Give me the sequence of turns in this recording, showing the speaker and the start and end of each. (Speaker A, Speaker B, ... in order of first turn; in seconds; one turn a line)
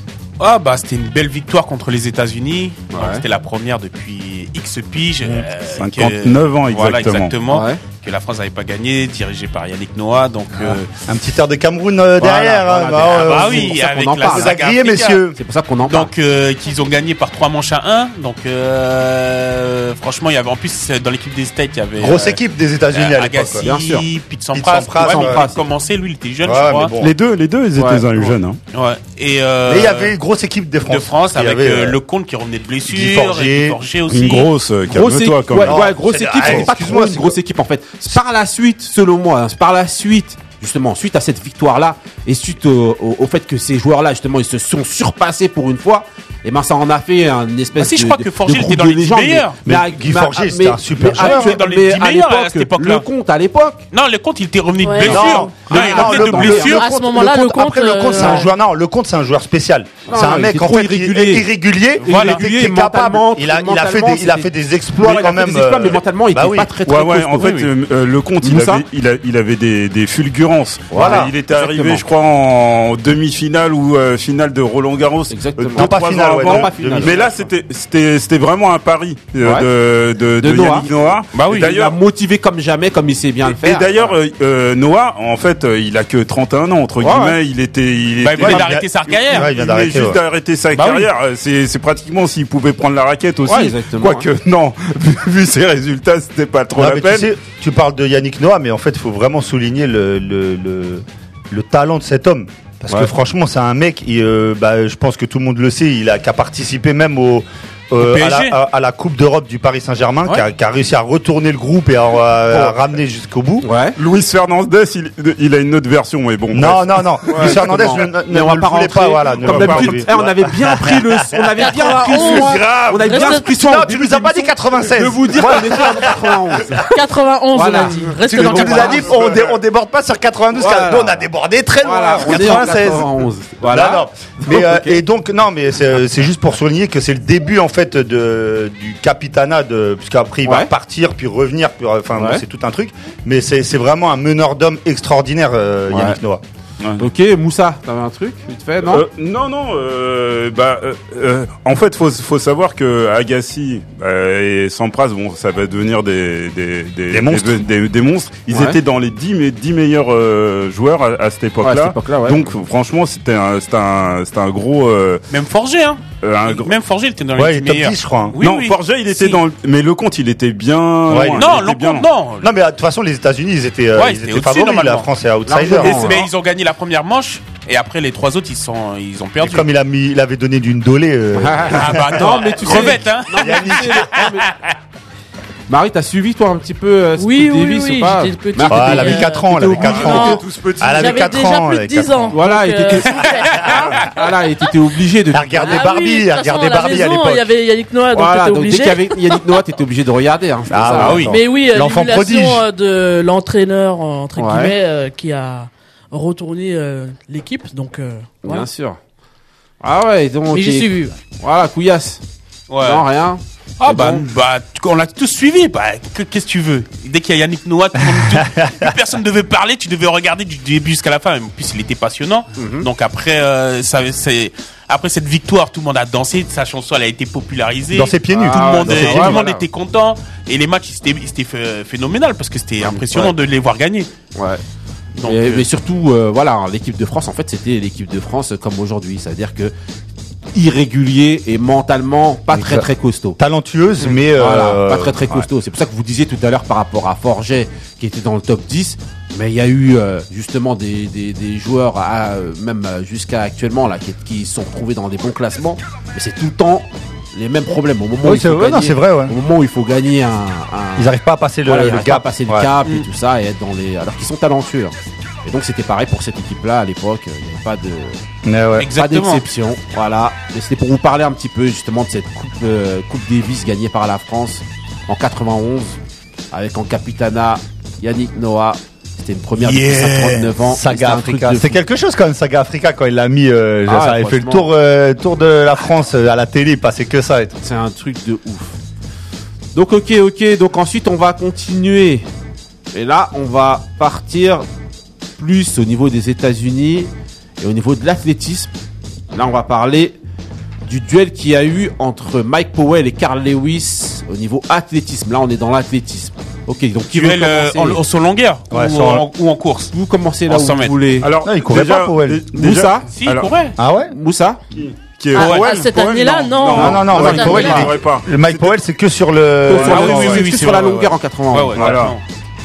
Speaker A: 0.4-10.9
Speaker B: 2.9-3.2
Speaker C: 5.8-7.3
Speaker B: 7.5-7.8
Speaker D: 10.7-15.4
Speaker B: 12.2-14.5
Speaker A: 13.1-15.2
Speaker B: 15.3-16.1
Speaker A: 15.9-22.4
Speaker D: 22.0-23.7
Speaker A: 22.9-26.9
Speaker B: 23.6-24.1
Speaker D: 24.5-25.4
Speaker B: 25.0-25.6
Speaker D: 26.4-27.1
Speaker C: 27.0-28.6
Speaker B: 27.8-28.1
Speaker A: 28.2-30.2
Speaker D: 29.6-32.0
Speaker A: 30.9-34.5
Speaker D: 32.9-33.8
Speaker C: 34.1-35.9
Speaker B: 34.9-53.9
Speaker D: 35.6-37.4
Speaker A: 47.8-49.5
Speaker D: 49.6-51.6
Speaker A: 51.1-53.0
Speaker A: 53.9-56.8
Speaker E: 54.8-55.3
Speaker D: 55.0-66.7
Speaker B: 55.1-56.9
Speaker E: 56.6-58.5
Speaker B: 60.1-61.5
Speaker A: 62.0-62.4
Speaker B: 62.0-67.7
Speaker C: 66.8-82.0
Speaker B: 68.4-68.8
Speaker B: 70.9-72.0
Speaker D: 70.9-71.3
Speaker B: 75.3-77.3
Speaker D: 75.7-77.3
Speaker B: 79.4-79.7
Speaker B: 80.4-80.9
Speaker A: 81.3-81.7
Speaker B: 81.5-84.2
Speaker C: 83.4-97.3
Speaker B: 87.0-87.4
Speaker A: 88.2-89.5
Speaker D: 88.3-90.2
Speaker A: 90.7-91.1
Speaker B: 93.4-94.3
Speaker D: 96.7-113.7
Speaker A: 108.0-108.5
Speaker B: 112.5-112.7
Speaker B: 113.6-114.0
Speaker C: 114.0-117.6
Speaker D: 116.5-126.9
Speaker B: 117.3-126.8
Speaker C: 119.4-120.9
Speaker E: 121.6-123.6
Speaker E: 126.8-129.1
Speaker B: 127.5-129.1
Speaker D: 128.2-146.4
Speaker C: 129.1-129.5
Speaker B: 130.6-131.3
Speaker B: 131.8-135.0
Speaker B: 140.4-140.7
Speaker B: 142.1-142.4
Speaker B: 145.9-146.2
Speaker B: 147.0-149.0
Speaker C: 148.9-165.2
Speaker D: 157.1-157.6
Speaker B: 158.5-158.8
Speaker B: 161.6-162.5
Speaker A: 165.3-169.4
Speaker C: 166.2-166.7
Speaker D: 167.3-168.4
Speaker C: 168.4-172.1
Speaker D: 171.1-171.6
Speaker A: 171.3-172.5
Speaker D: 172.4-176.2
Speaker A: 173.9-175.1
Speaker B: 175.5-176.2
Speaker A: 175.8-179.7
Speaker D: 179.4-184.2
Speaker B: 181.3-184.5
Speaker A: 181.7-184.5
Speaker B: 185.7-190.3
Speaker E: 187.2-190.4
Speaker D: 188.7-192.3
Speaker C: 189.9-191.3
Speaker E: 190.9-193.7
Speaker B: 192.3-195.8
Speaker A: 193.0-194.0
Speaker D: 193.6-194.1
Speaker D: 195.3-197.5
Speaker E: 195.6-199.6
Speaker B: 198.1-201.3
Speaker D: 200.7-202.6
Speaker A: 200.9-201.4
Speaker E: 201.2-208.7
Speaker B: 204.3-204.7
Speaker B: 208.4-209.0
Speaker B: 209.8-212.2
Speaker E: 210.5-211.1
Speaker A: 212.7-213.1
Speaker B: 212.8-214.3
Speaker A: 213.8-234.1
Speaker D: 218.1-218.9
Speaker B: 222.6-222.9
Speaker D: 227.9-229.4
Speaker B: 228.3-229.6
Speaker B: 232.8-233.3
Speaker B: 234.3-234.6
Speaker A: 235.2-235.7
Speaker B: 235.2-239.7
Speaker B: 240.5-243.4
Speaker D: 242.5-245.5
Speaker B: 244.3-268.2
Speaker D: 258.2-259.3
Speaker D: 261.0-262.7
Speaker D: 268.4-268.9
Speaker A: 268.8-269.4
Speaker B: 268.9-276.0
Speaker B: 276.5-281.8
Speaker A: 279.6-280.5
Speaker D: 280.6-287.5
Speaker B: 283.9-284.7
Speaker B: 287.6-288.8
Speaker B: 289.7-292.3
Speaker B: 292.9-294.6
Speaker B: 295.4-298.7
Speaker B: 299.3-300.2
Speaker B: 300.9-308.0
Speaker A: 307.1-309.9
Speaker D: 308.7-309.2
Speaker B: 309.9-311.3
Speaker A: 310.5-310.9
Speaker C: 311.2-313.5
Speaker D: 311.4-312.4
Speaker B: 312.5-313.1
Speaker A: 313.1-313.8
Speaker D: 313.8-314.1
Speaker B: 314.1-314.6
Speaker C: 314.7-318.7
Speaker A: 315.3-315.7
Speaker E: 315.3-317.9
Speaker B: 316.7-317.9
Speaker D: 316.7-320.5
Speaker B: 319.6-321.9
Speaker A: 319.8-322.2
Speaker C: 319.9-320.1
Speaker C: 321.8-322.1